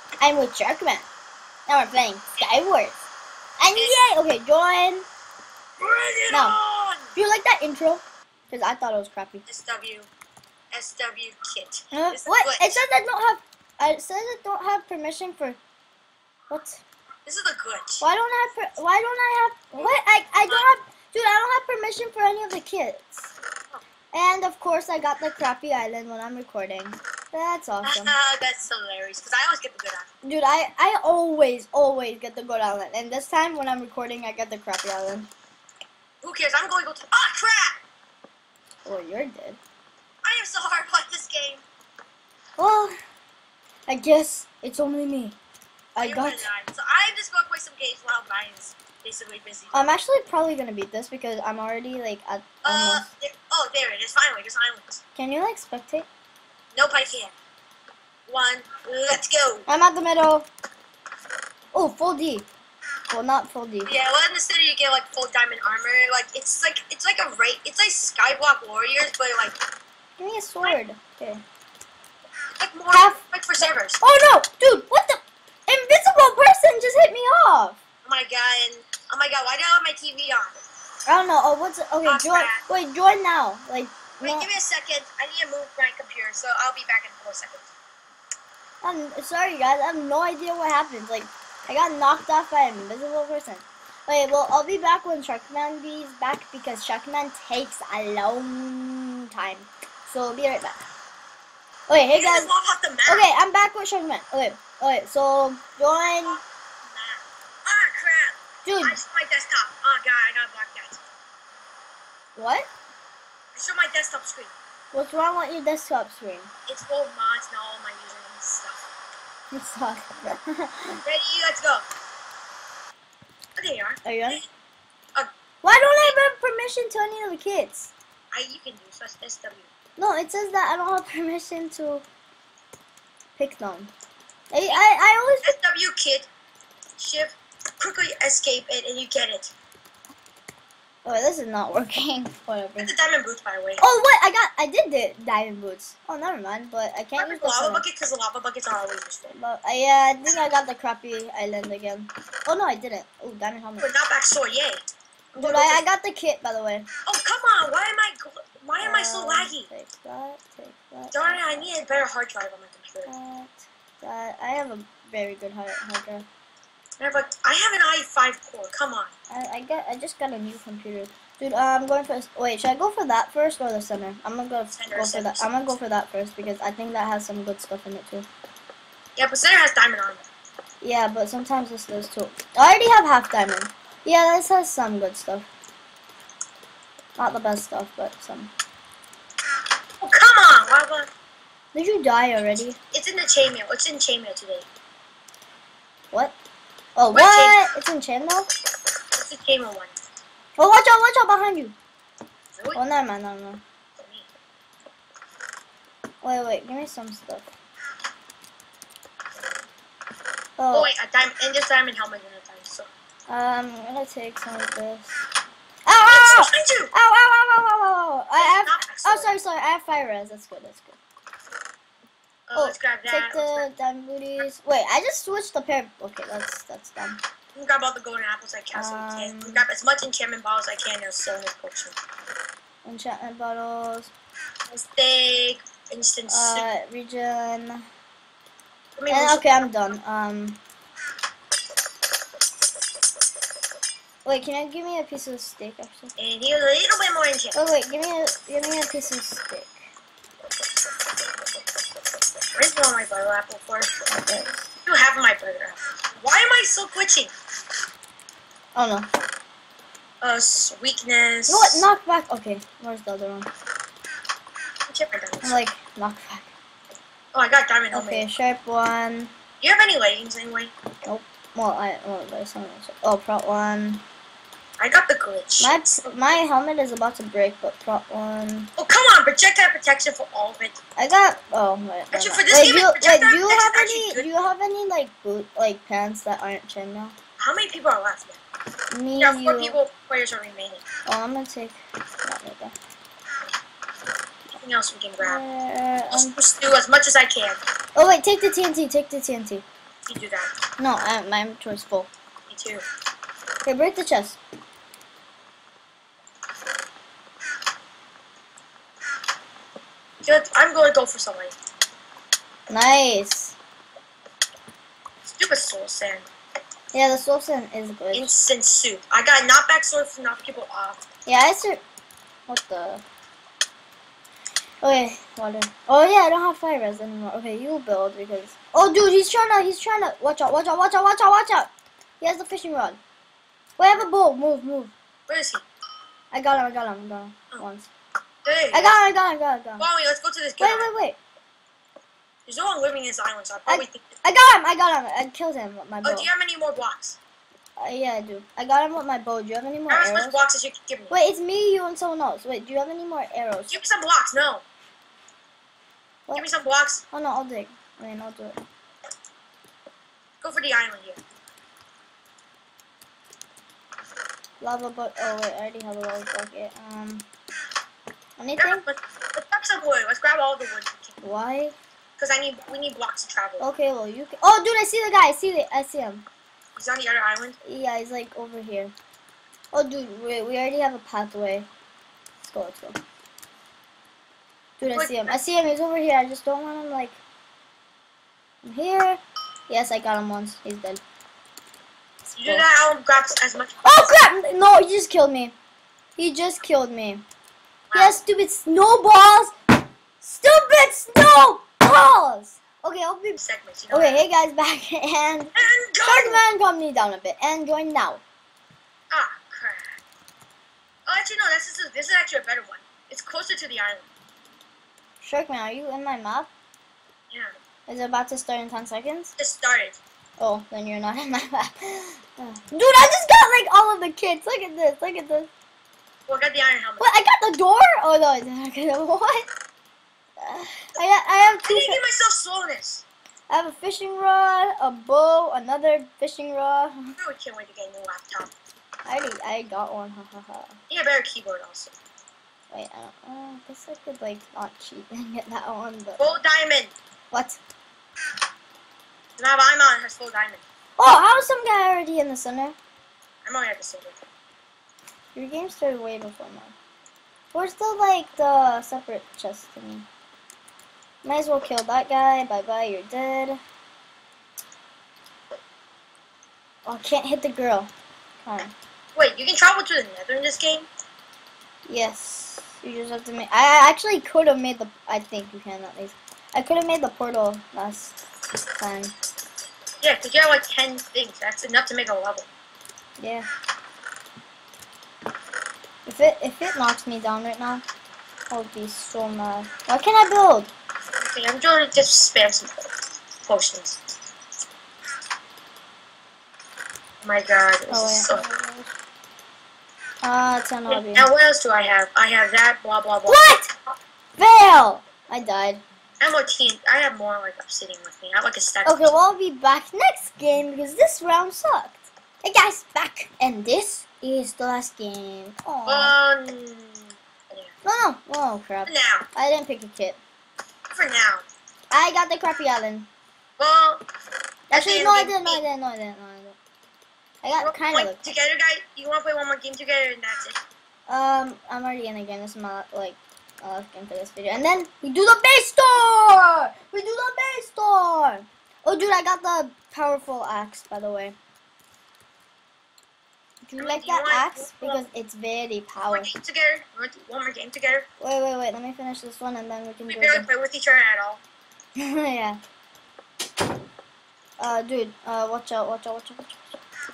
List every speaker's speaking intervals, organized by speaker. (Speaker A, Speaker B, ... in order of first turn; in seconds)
Speaker A: 0.2-1.1, 1.7-3.0, 3.6-5.0, 6.3-6.5, 7.1-9.5, 11.9-15.6, 16.5-16.8, 18.0-23.3, 24.1-28.1, 30.2-35.3, 38.8-39.6, 42.6-42.9, 43.9-45.4, 46.0-46.5, 49.7-53.1, 55.2-56.1, 59.7-60.5, 61.7-62.5, 63.1-63.9, 70.2-71.4, 72.9-73.2, 74.0-77.8, 81.0-84.5, 88.8-100.8, 101.9-102.5, 103.1-106.4, 108.6-109.0, 112.4-112.7, 114.9-116.5, 119.5-121.0, 124.0-124.4, 125.6-127.9, 130.0-132.0, 133.3-133.9, 134.5-135.5, 141.0-142.9, 143.8-147.8, 149.3-153.9, 155.4-156.9, 158.8-162.1, 163.1-166.2, 169.3-178.3, 180.8-185.5, 187.2-188.5, 191.7-192.8, 196.1-196.3, 196.9-198.5, 200.6-201.8, 202.7-203.6, 206.2-207.5, 210.6-210.9, 213.3-215.2, 215.8-221.0, 222.5-227.2, 228.7-229.7, 232.8-234.1, 236.3-237.8, 239.1-240.6, 244.2-246.1, 247.5-249.9, 254.1-254.7, 258.8-259.1, 261.5-263.5, 265.4-266.5, 267.9-269.3, 271.0-274.0, 275.6-278.7, 281.0-287.1, 288.9-289.8, 291.1-292.8, 295.2-296.4, 297.9-299.6, 300.8-302.1, 303.6-304.4, 312.7-313.6, 316.9-318.4, 321.2-321.8, 322.5-323.0, 324.8-333.0, 333.8-334.9, 336.3-337.9, 338.7-339.9, 340.6-341.2, 343.7-346.3, 347.8-350.4, 351.1-353.8, 357.1-358.6, 364.6-367.2, 368.4-368.8, 371.2-371.8, 373.6-376.2, 377.6-378.9, 379.7-381.7, 382.4-383.0, 384.8-387.2, 388.6-391.0, 392.3-392.6, 393.8-395.6, 396.2-397.2, 397.9-399.5, 400.2-403.4, 403.9-408.2, 415.2-416.5, 417.9-419.3, 420.4-425.5, 427.0-429.4, 430.4-432.0, 433.5-437.1, 439.1-440.8, 442.7-446.3, 447.3-447.6, 451.0-452.8, 455.3-456.8, 457.5-460.1, 461.2-463.6, 466.8-467.9, 468.4-468.7, 471.9-478.2, 478.8-479.1, 483.2-483.5, 486.1-487.8, 488.5-490.7, 497.9-498.9, 500.2-501.3, 503.3-503.7, 504.4-505.8, 508.8-516.1, 517.8-520.2, 521.9-523.1, 524.7-526.6, 527.4-528.4, 531.1-541.4, 543.7-546.3, 548.2-550.5, 552.0-552.6, 554.6-556.8
Speaker B: 5.8-7.1, 9.5-10.1, 10.7-12.8, 17.3-18.0, 27.8-30.1, 36.2-37.8, 40.2-41.6, 46.0-49.9, 52.6-55.0, 56.7-57.3, 58.3-59.7, 63.9-69.6, 72.6-74.0, 78.0-80.6, 82.0-82.7, 84.2-87.7, 102.1-103.3, 106.2-111.0, 113.5-114.5, 116.7-118.9, 121.0-121.8, 123.5-124.4, 128.3-129.7, 135.4-136.3, 137.0-139.5, 142.8-143.8, 147.2-149.3, 153.8-155.8, 157.1-159.7, 161.1-163.1, 167.0-169.1, 174.7-175.8, 179.2-180.2, 190.0-191.1, 192.9-194.7, 197.1-197.6, 199.1-200.0, 202.5-202.8, 204.0-204.3, 210.7-212.9, 216.0-216.9, 218.4-219.3, 222.5-223.7, 227.5-232.0, 234.7-236.7, 239.0-239.7, 246.2-247.7, 252.5-253.9, 254.9-257.3, 260.2-261.9, 264.9-265.6, 267.3-268.3, 269.6-270.7, 274.8-276.0, 278.8-280.8, 282.1-284.3, 287.4-288.4, 289.2-290.8, 294.5-295.4, 296.1-297.6, 300.1-300.5, 302.5-302.8, 310.2-311.6, 315.2-316.3, 318.1-321.0, 335.3-335.6, 338.4-339.0, 339.8-340.9, 342.4-344.2, 346.0-347.2, 349.9-351.1, 353.7-354.6, 356.3-357.0, 360.4-361.2, 368.6-371.2, 372.2-373.7, 376.8-377.6, 384.9-385.4, 392.4-393.8, 397.9-398.2, 403.4-404.2, 405.6-406.4, 409.1-409.9, 411.1-414.1, 419.4-420.0, 426.3-427.1, 431.6-433.0, 437.2-438.5, 440.9-441.9, 446.2-446.9, 449.4-450.6, 453.4-454.2, 469.1-470.9, 480.0-482.5, 491.2-492.9, 493.4-494.0, 497.2-498.4, 500.9-503.6, 506.2-509.1, 515.9-517.7, 518.9-519.3, 520.9-521.5, 523.6-524.0, 524.7-525.6, 527.6-530.6, 543.8-545.0, 546.1-548.1, 550.1-551.4